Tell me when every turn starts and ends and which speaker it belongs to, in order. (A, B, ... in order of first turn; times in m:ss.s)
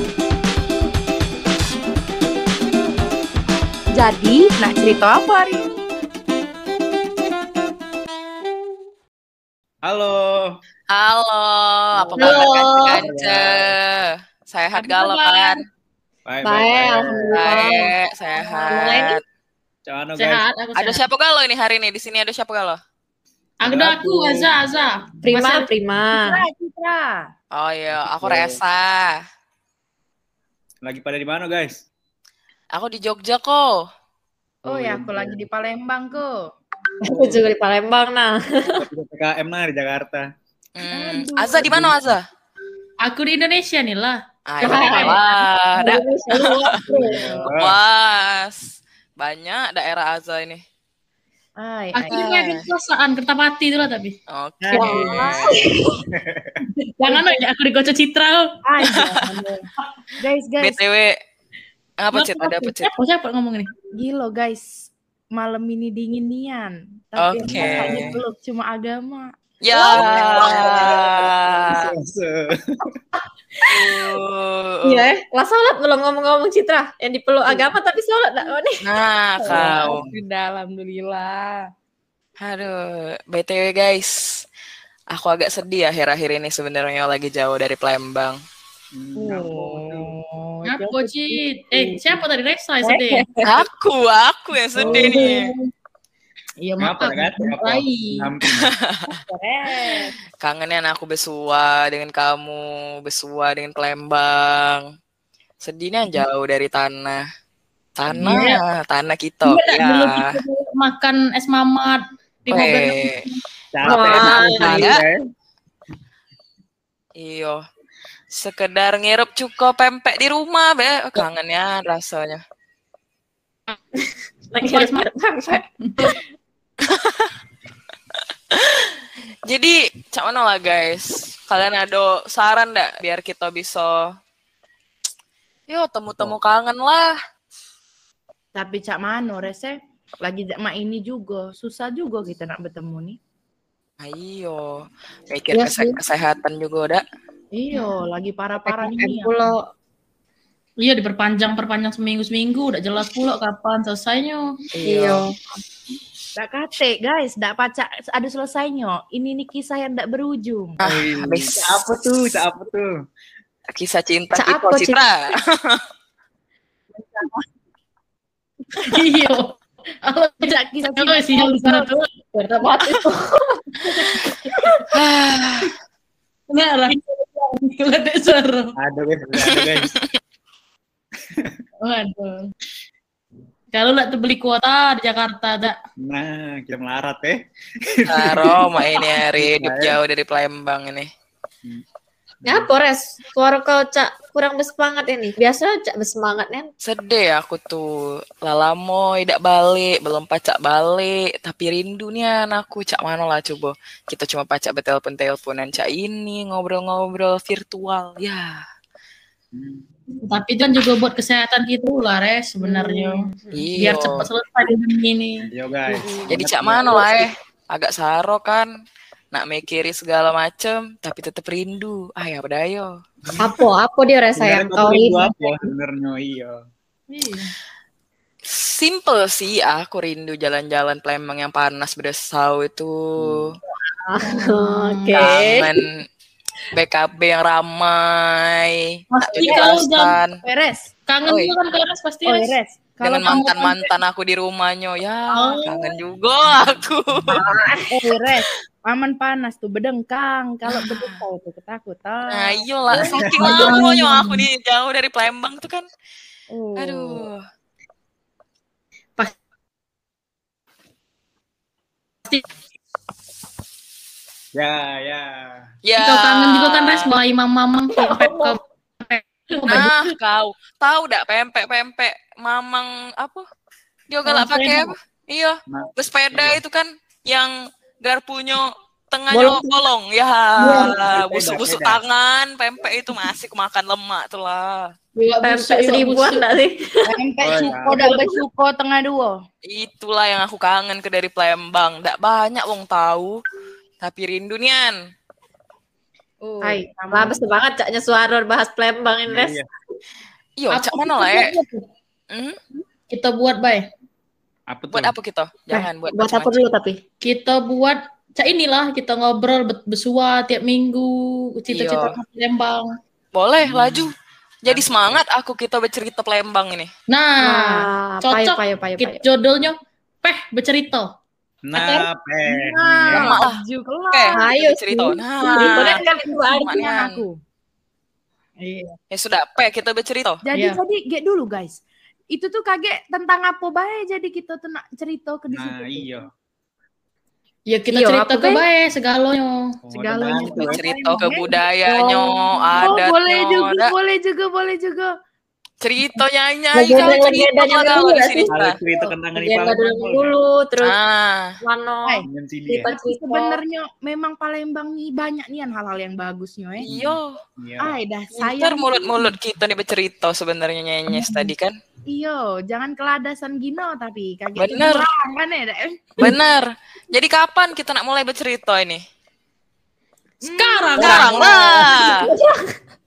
0:03.9-0:05.7 A
0:09.8-0:10.6 B
0:10.9-0:15.6 C
0:11.9-0:13.7 B
0:12.2-0:13.0 D
0:14.8-0:15.6 E
0:16.2-0:17.5 B
0:16.4-0:17.9 D
0:17.3-0:19.2 C
0:18.5-0:19.2 D
0:19.8-0:20.4 B
0:20.2-0:21.0 E
0:20.7-0:22.8 C
0:23.6-0:25.7 E
0:23.6-0:24.5 B
0:25.2-0:26.4 D
0:26.1-0:27.3 A
0:27.5-0:29.1 C
0:28.0-0:28.6 B
0:30.8-0:31.8 B
0:32.7-0:33.8 C
0:34.6-0:35.4 B
0:34.6-0:36.4 A
0:37.0-0:38.8 D
0:37.1-0:37.4 B
0:38.7-0:40.2 B
0:40.8-0:42.2 C
0:40.9-0:41.9 A
0:41.6-0:41.9 B
0:43.0-0:45.2 E
0:44.5-0:46.8 C
0:44.6-0:45.2 D
0:45.8-0:47.4 D
0:46.9-0:47.5 A
0:47.0-0:47.8 B
0:47.5-0:48.7 C
0:49.2-0:50.6 C
0:51.6-0:52.1 A
0:51.9-0:54.2 E
0:52.1-0:52.6 C
0:54.3-0:55.6 C
0:54.7-0:55.9 D
0:54.7-0:55.1 A
0:54.8-0:55.6 B
0:56.6-0:58.5 E
0:57.0-0:57.4 A
0:58.6-0:59.6 A
0:58.8-0:59.2 C
1:00.2-1:00.8 A
1:00.6-1:01.2 C
1:02.0-1:02.9 C
1:02.1-1:03.7 E
1:03.9-1:09.3 A
1:07.2-1:08.2 C
1:07.4-1:08.2 B
1:09.6-1:11.9 C
1:09.7-1:11.0 D
1:09.9-1:12.5 B
1:13.7-1:15.1 C
1:14.8-1:18.8 D
1:18.8-1:20.0 C
1:19.4-1:21.6 A
1:19.5-1:20.1 B
1:22.4-1:24.4 C
1:25.1-1:28.4 C
1:28.9-1:30.1 B
1:29.2-1:32.2 A
1:30.6-1:33.3 E
1:32.8-1:33.6 A
1:33.4-1:35.5 C
1:34.8-1:35.2 B
1:34.9-1:35.5 A
1:34.9-1:35.5 E
1:36.6-1:38.3 E
1:36.8-1:38.7 B
1:39.1-1:40.1 A
1:40.4-1:44.8 C
1:45.6-1:47.2 C
1:48.0-1:50.3 C
1:48.2-1:48.6 E
1:49.4-1:53.4 E
1:52.5-1:53.2 C
1:53.7-1:55.2 B
1:53.8-1:55.0 D
1:53.8-1:55.0 C
1:57.2-1:57.6 C
1:58.3-2:02.4 C
2:04.5-2:05.6 D
2:04.6-2:05.1 E
2:05.8-2:06.2 E
2:07.0-2:07.3 C
2:08.5-2:08.9 C
2:09.5-2:14.1 C
2:15.7-2:17.2 C
2:18.5-2:23.2 A
2:24.0-2:27.0 C
2:25.5-2:26.0 D
2:27.5-2:29.4 A
2:28.6-2:29.6 D
2:30.8-2:34.5 E
2:34.7-2:35.3 C
2:34.8-2:35.4 D
2:36.4-2:40.8 A
2:40.8-2:41.8 C
2:40.8-2:42.9 B
2:43.7-2:45.8 C
2:44.3-2:45.0 D
2:48.8-2:52.8 E
2:50.5-2:51.9 A
2:52.6-2:53.4 D
2:53.7-2:54.7 E
2:54.9-2:55.7 C
2:56.5-2:58.7 E
2:58.8-2:59.9 B
3:01.8-3:02.5 E
3:03.7-3:05.8 E
3:06.0-3:10.0 B
3:08.1-3:11.1 C
3:12.4-3:16.7 D
3:16.8-3:28.6 C
3:29.5-3:29.8 B
3:30.2-3:35.5 E
3:32.6-3:33.1 A
3:33.5-3:34.2 C
3:35.4-3:37.3 B
3:36.3-3:38.7 C
3:39.3-3:43.0 C
3:43.3-3:43.6 B
3:43.4-3:45.7 D
3:44.3-3:46.6 B
3:47.1-3:47.5 E
3:48.5-3:53.5 C
3:53.2-3:53.5 B
3:54.0-3:55.8 D
3:54.2-3:55.3 E
3:55.2-3:56.0 C
3:56.7-4:00.3 C
3:59.1-4:00.2 E
3:59.4-3:59.8 A
4:00.4-4:00.9 A
4:01.1-4:02.5 E
4:01.3-4:01.5 C
4:02.2-4:03.8 A
4:03.0-4:07.4 C
4:03.3-4:03.8 E
4:05.3-4:05.9 D
4:07.3-4:07.9 D
4:07.9-4:13.6 A
4:10.7-4:11.2 C
4:12.3-4:15.8 C
4:12.9-4:13.5 B
4:13.4-4:14.4 E
4:16.5-4:17.2 A
4:16.8-4:17.4 C
4:24.5-4:25.6 B
4:25.8-4:27.1 C
4:26.0-4:30.1 E
4:28.0-4:28.6 D
4:29.7-4:33.4 C
4:34.1-4:44.9 C
4:35.7-4:36.6 B
4:39.3-4:39.7 D
4:40.6-4:41.0 D
4:40.8-4:42.0 B
4:45.1-4:46.4 E
4:45.4-4:47.0 D
4:47.0-4:49.4 A
4:47.4-4:48.0 B
4:47.8-4:48.4 D
4:49.6-4:53.4 C
4:54.0-4:55.0 C
4:56.4-4:57.4 A
4:56.6-4:59.6 D
4:59.3-4:59.6 B
5:00.6-5:01.5 C
5:00.7-5:01.8 E
5:02.3-5:02.6 C
5:03.1-5:03.9 E
5:04.7-5:05.1 B
5:04.9-5:06.7 C
5:05.7-5:07.0 D
5:07.2-5:12.9 E
5:11.7-5:12.1 C
5:13.3-5:14.1 C
5:13.6-5:14.1 B
5:14.6-5:15.2 B
5:14.6-5:16.9 C
5:17.1-5:21.1 E
5:17.4-5:19.2 D
5:21.6-5:23.4 B
5:21.7-5:22.0 E
5:22.4-5:24.4 A
5:23.1-5:23.6 C
5:24.1-5:27.2 C
5:24.3-5:26.8 D
5:25.6-5:27.4 A
5:28.6-5:28.9 E
5:29.1-5:30.4 C
5:30.4-5:31.8 A
5:30.5-5:30.8 E
5:32.3-5:36.1 A
5:35.5-5:36.3 B
5:37.7-5:39.6 E
5:37.9-5:38.6 D
5:39.9-5:40.8 B
5:39.9-5:42.2 A
5:40.6-5:43.9 C
5:42.7-5:45.1 A
5:45.8-5:48.8 C
5:46.7-5:51.0 D
5:48.5-5:50.3 B
5:50.8-5:51.5 C
5:51.6-5:52.2 D
5:52.0-5:56.9 A
5:52.2-5:52.9 B
5:52.8-5:53.6 D
5:56.8-5:57.3 C
5:56.8-5:58.0 B
5:57.8-5:59.3 A
5:58.3-6:01.8 C
6:01.1-6:01.5 A
6:02.1-6:06.4 A
6:04.6-6:05.0 C
6:06.2-6:09.0 C
6:10.4-6:11.8 A
6:10.5-6:12.0 E
6:11.0-6:12.2 C
6:11.7-6:12.6 D